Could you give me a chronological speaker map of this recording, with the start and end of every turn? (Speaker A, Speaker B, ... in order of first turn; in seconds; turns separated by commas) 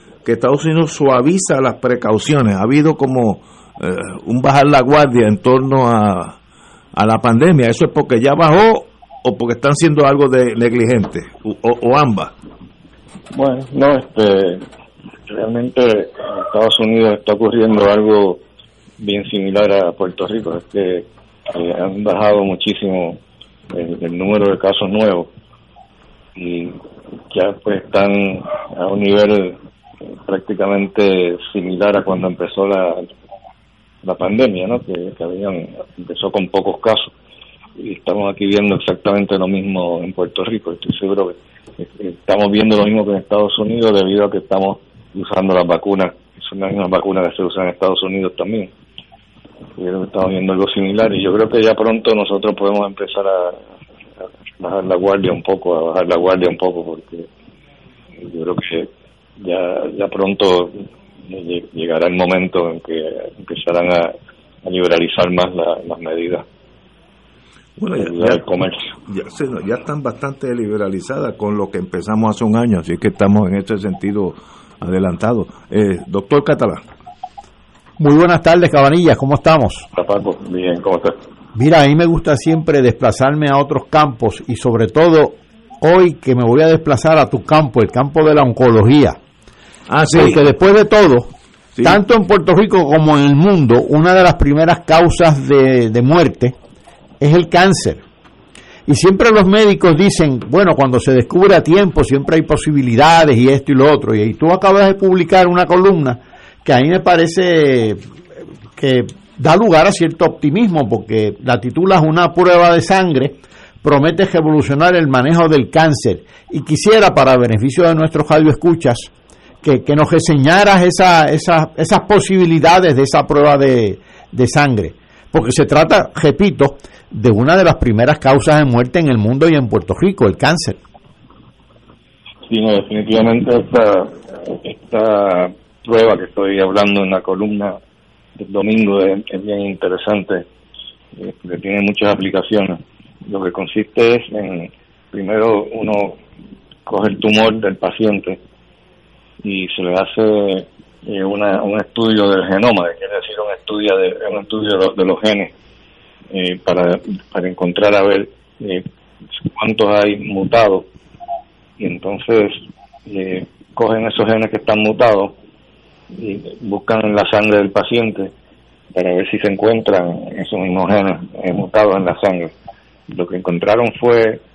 Speaker A: 0.2-6.4, Speaker A: 6.9-12.3, Speaker B: 13.3-14.6, Speaker B: 15.3-18.4, Speaker B: 19.0-23.2, Speaker B: 23.7-25.3, Speaker B: 26.4-26.8, Speaker B: 27.3-29.6, Speaker B: 30.2-33.1, Speaker B: 34.0-37.1, Speaker B: 37.8-48.7, Speaker B: 49.8-53.6, Speaker B: 54.6-57.3, Speaker B: 58.2-58.9, Speaker B: 59.4-60.7, Speaker B: 61.2-66.4, Speaker A: 67.8-68.4, Speaker B: 67.9-68.9, Speaker A: 69.1-76.8, Speaker C: 78.0-79.9, Speaker B: 79.9-81.2, Speaker C: 81.5-89.2, Speaker A: 89.9-90.5, Speaker C: 90.1-91.3, Speaker C: 91.8-96.5, Speaker C: 97.2-98.0, Speaker C: 98.9-108.0, Speaker C: 108.8-119.1, Speaker C: 119.6-130.8, Speaker B: 132.5-137.8, Speaker B: 138.4-140.4, Speaker B: 141.2-146.2, Speaker B: 146.8-148.4, Speaker B: 149.4-155.5, Speaker B: 156.3-158.8, Speaker B: 159.4-160.9, Speaker B: 161.8-165.3, Speaker B: 166.1-168.3, Speaker B: 168.9-172.5, Speaker B: 173.1-174.4